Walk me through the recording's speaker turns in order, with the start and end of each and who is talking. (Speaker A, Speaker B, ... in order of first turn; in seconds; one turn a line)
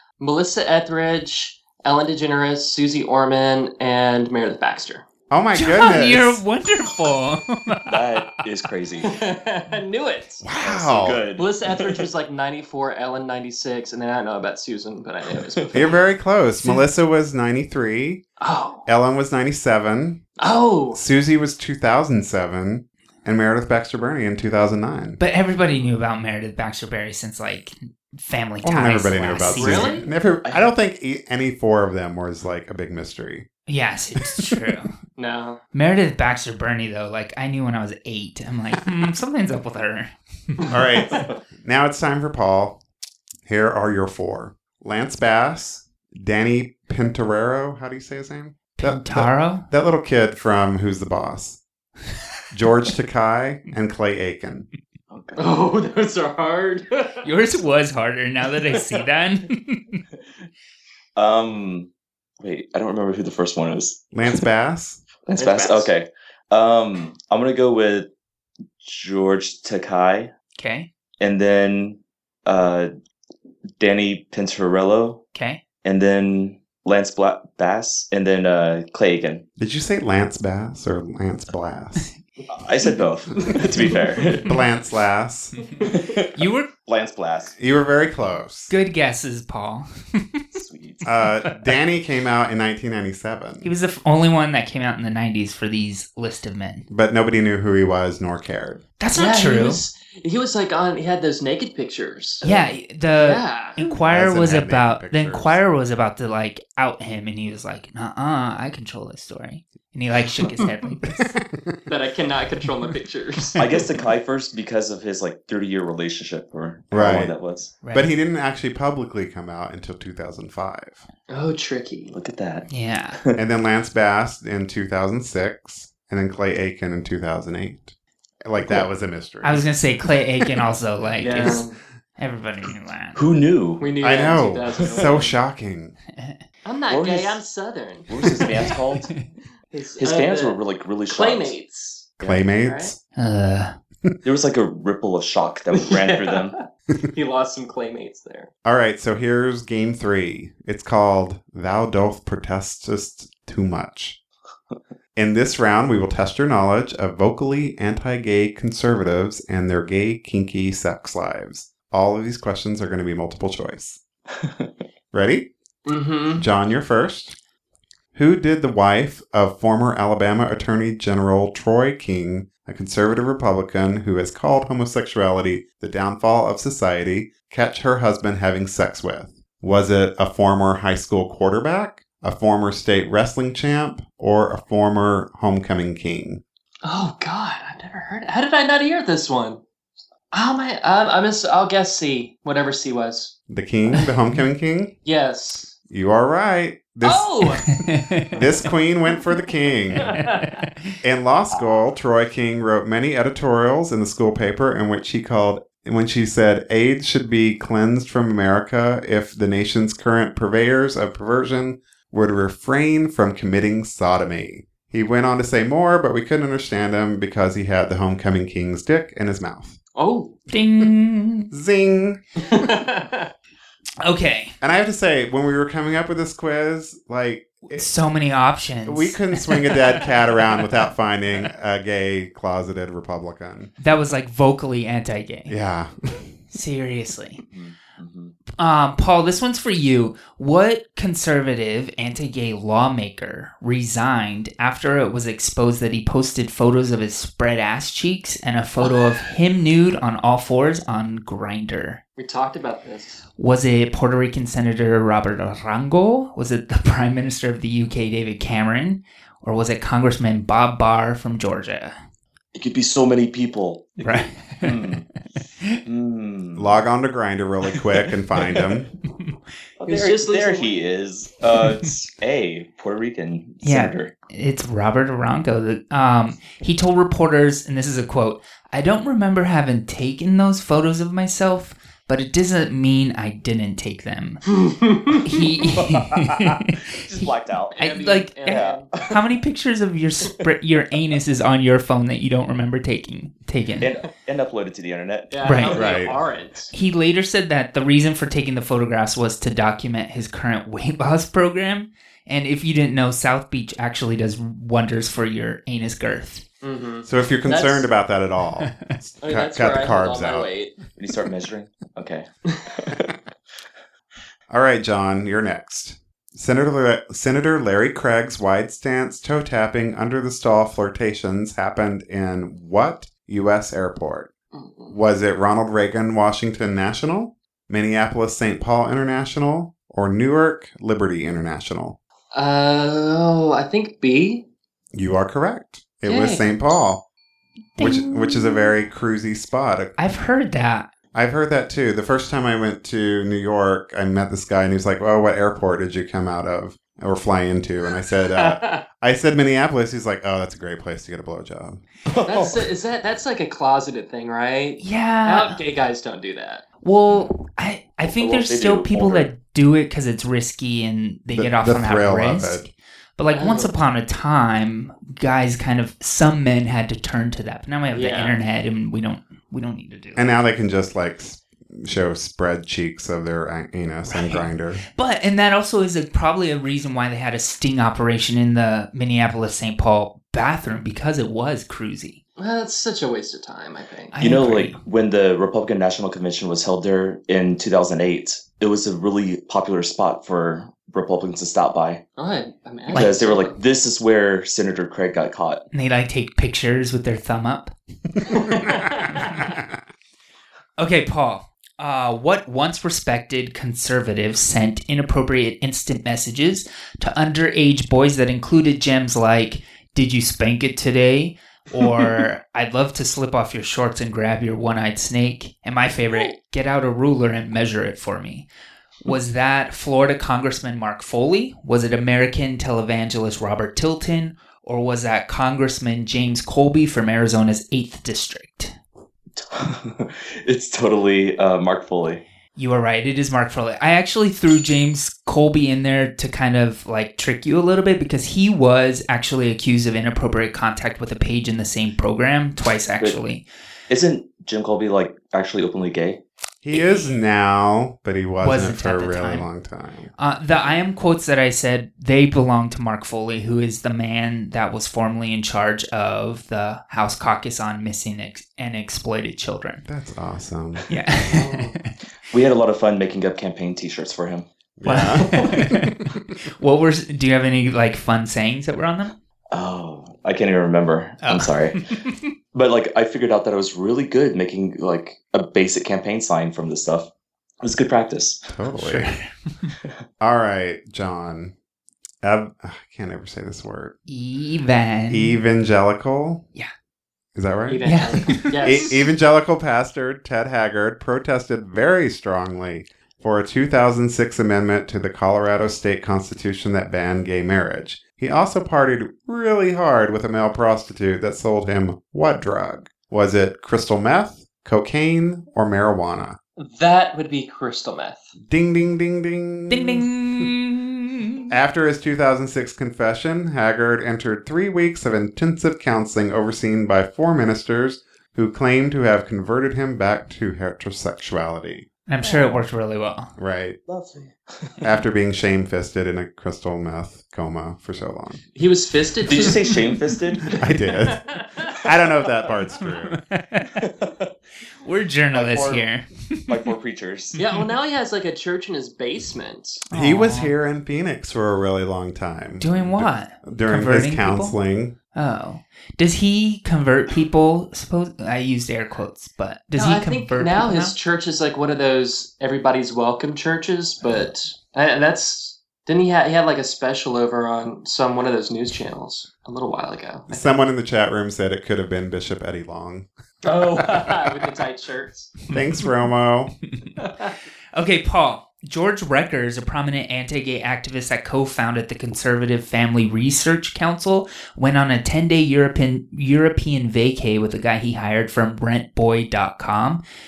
Speaker A: 0.2-5.0
Speaker B: 5.3-6.4
Speaker C: 5.5-8.2
Speaker D: 7.8-9.2
Speaker A: 9.0-10.4
Speaker B: 10.4-11.2
Speaker D: 10.6-12.1
Speaker A: 11.4-15.9
Speaker D: 15.4-15.8
Speaker B: 15.7-18.2
Speaker C: 16.6-16.8
Speaker A: 18.4-18.9
Speaker B: 18.9-20.2
Speaker A: 20.4-21.0
Speaker B: 20.9-25.2
Speaker C: 25.2-30.1
Speaker B: 28.6-33.5
Speaker A: 29.5-30.1
Speaker D: 30.4-30.7
Speaker C: 33.7-34.9
Speaker A: 35.2-35.6
Speaker C: 35.7-40.1
Speaker B: 40.7-42.8
Speaker B: 43.4-51.6
Speaker C: 48.8-49.7
Speaker B: 52.5-54.7
Speaker D: 55.1-55.4
Speaker A: 55.4-57.2
Speaker C: 57.2-60.0
Speaker D: 61.1-64.4
Speaker B: 64.1-65.0
Speaker D: 65.2-68.1
Speaker A: 65.4-65.9
Speaker D: 68.8-70.3
Speaker C: 70.6-70.9
Speaker D: 71.2-72.9
Speaker D: 73.8-75.2
Speaker C: 75.3-75.6
Speaker D: 75.8-79.4
Speaker B: 79.6-82.1
Speaker D: 82.5-84.5
Speaker B: 84.3-85.5
Speaker D: 85.8-87.5
Speaker C: 86.3-86.7
Speaker B: 87.6-88.7
Speaker C: 88.7-90.4
Speaker D: 90.5-91.1
Speaker B: 91.0-93.7
Speaker C: 93.6-96.9
Speaker B: 96.9-98.8
Speaker C: 99.0-99.8
Speaker A: 99.1-102.5
Speaker C: 102.4-111.4
Speaker A: 103.2-103.8
Speaker B: 104.1-105.6
Speaker B: 111.1-111.8
Speaker A: 111.9-113.6
Speaker D: 113.6-117.7
Speaker B: 116.9-117.3
Speaker C: 117.8-118.1
Speaker B: 117.9-121.0
Speaker A: 121.3-122.2
Speaker D: 122.1-122.7
Speaker C: 122.7-123.2
Speaker B: 123.3-127.9
Speaker B: 128.4-129.7
Speaker D: 128.6-128.9
Speaker C: 129.4-131.6
Speaker A: 131.2-131.8
Speaker D: 131.2-131.6
Speaker C: 132.2-133.2
Speaker D: 133.1-133.9
Speaker A: 133.8-135.4
Speaker B: 134.0-135.9
Speaker D: 134.8-135.1
Speaker A: 136.6-138.8
Speaker D: 136.9-137.4
Speaker D: 138.1-139.1
Speaker A: 139.7-142.9
Speaker D: 140.0-141.5
Speaker D: 142.2-142.4
Speaker B: 142.2-143.0
Speaker C: 143.2-143.8
Speaker D: 144.2-146.6
Speaker A: 145.7-148.5
Speaker B: 148.6-154.2
Speaker B: 155.1-164.0
Speaker D: 164.3-164.7
Speaker B: 165.1-165.5
Speaker A: 165.8-166.4
Speaker B: 166.3-167.4
Speaker B: 168.1-186.4
Speaker A: 186.8-189.6
Speaker A: 190.3-193.3
Speaker B: 193.5-194.9
Speaker A: 195.0-195.7
Speaker B: 195.9-197.4
Speaker A: 197.0-197.7
Speaker C: 197.7-198.3
Speaker B: 198.3-200.1
Speaker C: 200.0-201.0
Speaker A: 200.0-200.6
Speaker B: 201.0-219.8
Speaker D: 201.5-201.8
Speaker A: 219.9-220.4
Speaker C: 220.5-221.5
Speaker B: 221.5-222.7
Speaker A: 222.4-223.3
Speaker C: 224.0-224.5
Speaker B: 224.6-227.9
Speaker C: 227.7-230.0
Speaker B: 228.8-233.7
Speaker C: 233.8-235.6
Speaker B: 235.5-236.4
Speaker C: 236.5-237.4
Speaker D: 237.4-238.3
Speaker C: 238.6-252.0
Speaker A: 248.8-249.2
Speaker A: 252.2-253.2
Speaker C: 253.4-262.0
Speaker D: 262.5-265.1
Speaker C: 264.0-264.9
Speaker D: 265.8-266.8
Speaker B: 266.6-268.9
Speaker D: 269.8-274.1
Speaker A: 269.9-270.8
Speaker C: 273.6-284.4
Speaker A: 284.5-285.3
Speaker C: 285.2-293.9
Speaker D: 285.6-287.9
Speaker A: 287.7-288.9
Speaker D: 288.4-289.2
Speaker D: 293.8-295.8
Speaker A: 295.3-296.7
Speaker C: 295.4-295.8
Speaker B: 295.7-296.1
Speaker C: 296.7-306.4
Speaker A: 306.6-307.9
Speaker B: 307.0-310.5
Speaker A: 309.2-310.8
Speaker D: 310.9-313.1
Speaker B: 314.5-324.3
Speaker A: 324.5-324.9
Speaker B: 324.9-331.9
Speaker A: 332.3-334.4
Speaker B: 334.9-337.0
Speaker A: 336.0-336.4
Speaker C: 337.8-338.7
Speaker B: 337.8-339.9
Speaker C: 340.0-340.9
Speaker B: 341.1-351.8
Speaker A: 348.3-348.8
Speaker D: 352.1-352.6
Speaker A: 352.2-356.6
Speaker C: 354.8-355.6
Speaker C: 356.8-370.4
Speaker D: 358.1-359.3
Speaker B: 361.3-362.6
Speaker A: 363.3-363.7
Speaker A: 367.9-368.4
Speaker B: 370.1-374.8
Speaker C: 374.1-382.2
Speaker A: 382.4-384.1
Speaker C: 384.1-384.8
Speaker D: 384.2-392.0
Speaker A: 392.2-393.6
Speaker D: 392.9-395.6
Speaker C: 395.7-399.4
Speaker A: 398.3-399.4
Speaker C: 400.8-418.5
Speaker A: 416.1-416.3
Speaker C: 419.0-428.7
Speaker D: 429.4-432.2
Speaker C: 432.6-443.4
Speaker D: 443.9-446.2
Speaker B: 446.6-450.1
Speaker C: 446.7-447.1
Speaker C: 448.4-449.5
Speaker C: 450.2-459.8
Speaker B: 459.9-460.9
Speaker C: 460.9-461.9
Speaker A: 461.2-461.8
Speaker D: 462.3-464.5
Speaker B: 464.8-466.0
Speaker C: 464.8-466.0
Speaker A: 465.1-465.6
Speaker C: 466.6-469.1
Speaker D: 469.5-471.9
Speaker C: 471.2-472.2
Speaker D: 472.5-477.1
Speaker D: 477.6-478.5
Speaker B: 478.5-479.1
Speaker C: 478.7-479.7
Speaker B: 480.2-481.5
Speaker B: 482.2-483.9
Speaker C: 484.1-485.4
Speaker B: 485.1-486.4
Speaker B: 487.3-506.4
Speaker A: 487.7-489.0
Speaker C: 487.8-488.6
Speaker A: 506.6-508.3
Speaker B: 508.5-510.5
Speaker C: 509.7-511.5
Speaker B: 511.5-521.9
Speaker C: 522.1-523.3
Speaker B: 523.4-523.8
Speaker D: 523.9-524.9
Speaker B: 524.8-528.4
Speaker A: 528.5-529.8
Speaker D: 529.3-530.6
Speaker B: 530.6-531.2
Speaker A: 530.8-531.8
Speaker B: 531.8-533.2
Speaker C: 532.8-533.8
Speaker D: 533.8-534.3
Speaker C: 534.8-536.7
Speaker D: 535.3-535.9
Speaker D: 536.5-537.4
Speaker A: 537.4-539.8
Speaker C: 537.4-537.7
Speaker C: 539.9-540.5
Speaker B: 539.9-544.9
Speaker C: 542.6-544.6
Speaker C: 545.1-551.0
Speaker A: 549.8-560.6
Speaker B: 560.3-563.1
Speaker A: 563.4-565.4
Speaker B: 565.5-566.5
Speaker A: 567.0-567.3
Speaker C: 567.7-580.0